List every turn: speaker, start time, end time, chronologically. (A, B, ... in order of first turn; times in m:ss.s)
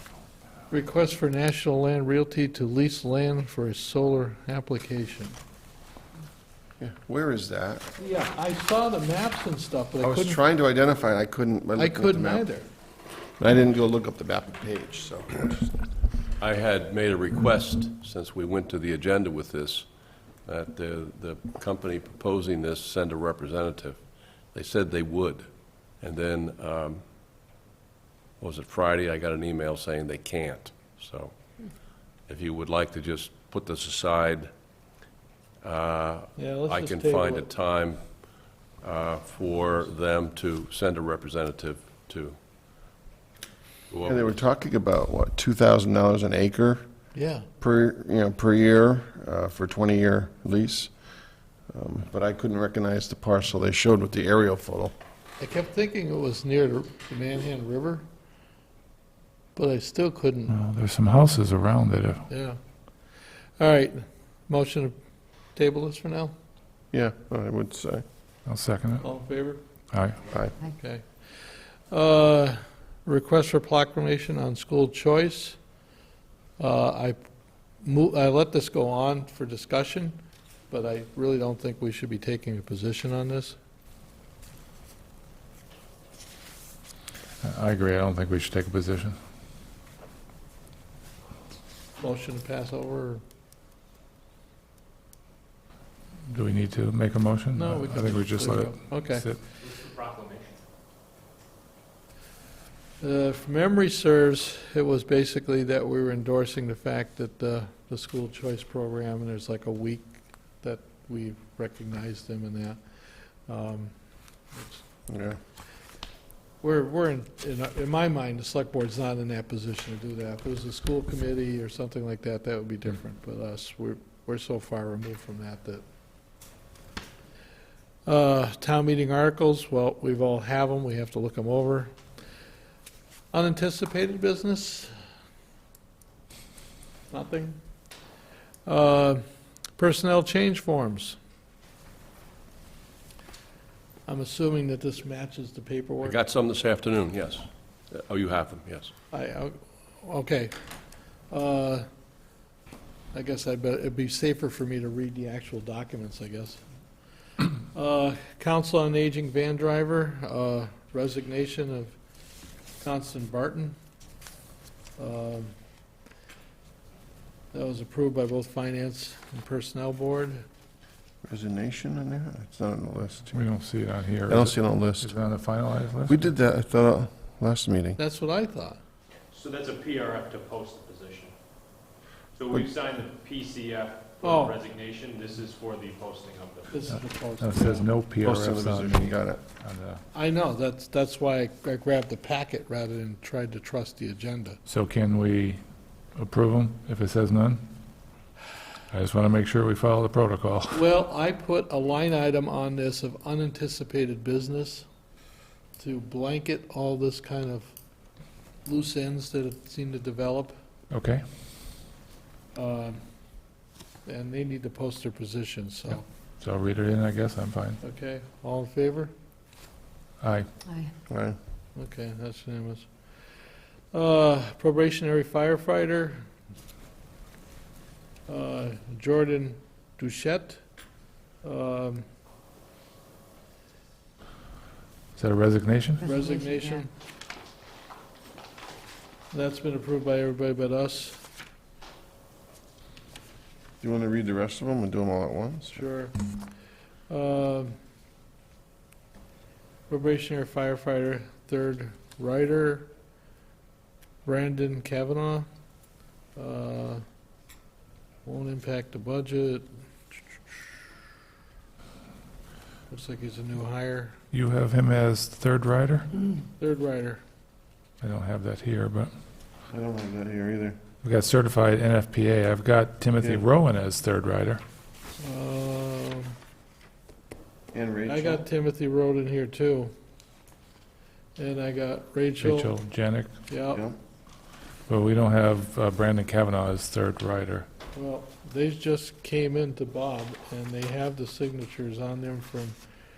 0:00.7-0:05.4 A
0:06.8-0:07.9 B
0:08.0-0:10.4 A
0:10.0-0:12.5 B
0:11.8-0:12.7 A
0:13.4-0:15.7 B
0:16.4-0:19.9 C
0:20.4-0:25.5 C
0:26.0-0:27.0 C
0:28.4-0:31.3 C
0:32.2-0:34.5 C
0:35.6-0:38.2 C
0:36.4-0:37.5 A
0:38.8-0:42.4 C
0:43.9-0:44.3 C
0:44.0-0:46.8 B
0:47.1-0:47.5 A
0:47.6-0:50.9 B
0:51.7-0:54.9 B
0:55.4-0:58.0 A
0:59.5-1:00.5 A
1:00.5-1:02.2 D
1:02.3-1:02.6 A
1:03.6-1:04.9 A
1:05.5-1:06.3 A
1:06.9-1:08.0 B
1:08.4-1:09.1 D
1:09.0-1:09.6 A
1:09.9-1:10.2 D
1:10.6-1:15.6 A
1:16.6-1:17.2 A
1:17.8-1:20.2 A
1:20.7-1:23.6 A
1:27.4-1:29.2 D
1:32.0-1:33.2 A
1:36.3-1:39.4 D
1:37.5-1:39.2 A
1:39.6-1:40.6 E
1:43.0-1:53.9 A
1:54.5-1:54.8 A
1:55.1-1:55.4 B
1:56.6-2:05.8 A
2:08.0-2:11.9 A
2:13.3-2:14.9 A
2:17.1-2:17.6 A
2:18.6-2:19.2 A
2:19.8-2:21.2 A
2:24.1-2:26.2 A
2:26.0-2:28.9 C
2:29.1-2:30.5 A
2:31.3-2:31.8 A
2:33.1-2:36.6 A
2:37.4-2:42.0 A
2:42.8-2:43.8 A
2:45.0-2:45.5 A
2:47.5-2:50.4 A
2:51.2-2:53.4 B
2:53.3-2:56.3 D
2:54.3-2:55.1 B
2:56.1-2:58.0 B
2:58.0-2:58.8 A
2:59.3-3:01.3 E
3:02.4-3:06.9 E
3:04.2-3:04.6 A
3:06.7-3:07.9 A
3:07.4-3:09.1 D
3:08.2-3:09.4 B
3:09.6-3:10.0 D
3:10.1-3:14.6 A
3:14.6-3:15.6 D
3:16.2-3:17.6 D
3:18.9-3:20.8 D
3:20.7-3:24.9 A
3:25.8-3:27.7 A
3:28.6-3:30.5 A
3:30.9-3:31.2 D
3:32.5-3:33.0 A
3:34.0-3:36.0 A
3:36.4-3:37.8 D
3:37.8-3:39.1 A
3:40.2-3:40.5 D
3:41.1-3:41.4 B
3:41.7-3:42.9 A
3:43.9-3:46.3 A
3:48.3-3:50.6 A
3:51.4-3:52.0 A
3:55.2-3:56.1 D
3:56.0-3:56.9 A
3:59.3-4:01.2 A
4:03.8-4:05.8 B
4:05.7-4:06.2 A
4:07.1-4:07.7 A
4:09.9-4:12.9 A
4:14.2-4:15.5 A
4:16.3-4:17.0 A
4:18.2-4:19.6 A
4:22.9-4:24.2 A
4:24.3-4:26.2 D
4:26.6-4:27.2 A
4:28.0-4:29.1 D
4:29.7-4:30.8 B
4:31.0-4:34.6 D
4:35.2-4:36.3 A
4:37.7-4:38.4 B
4:38.1-4:39.9 A
4:41.4-4:42.7 A
4:42.4-4:43.3 D
4:43.5-4:43.8 A
4:43.7-4:44.0 B
4:44.9-4:47.7 D
4:47.9-4:52.8 A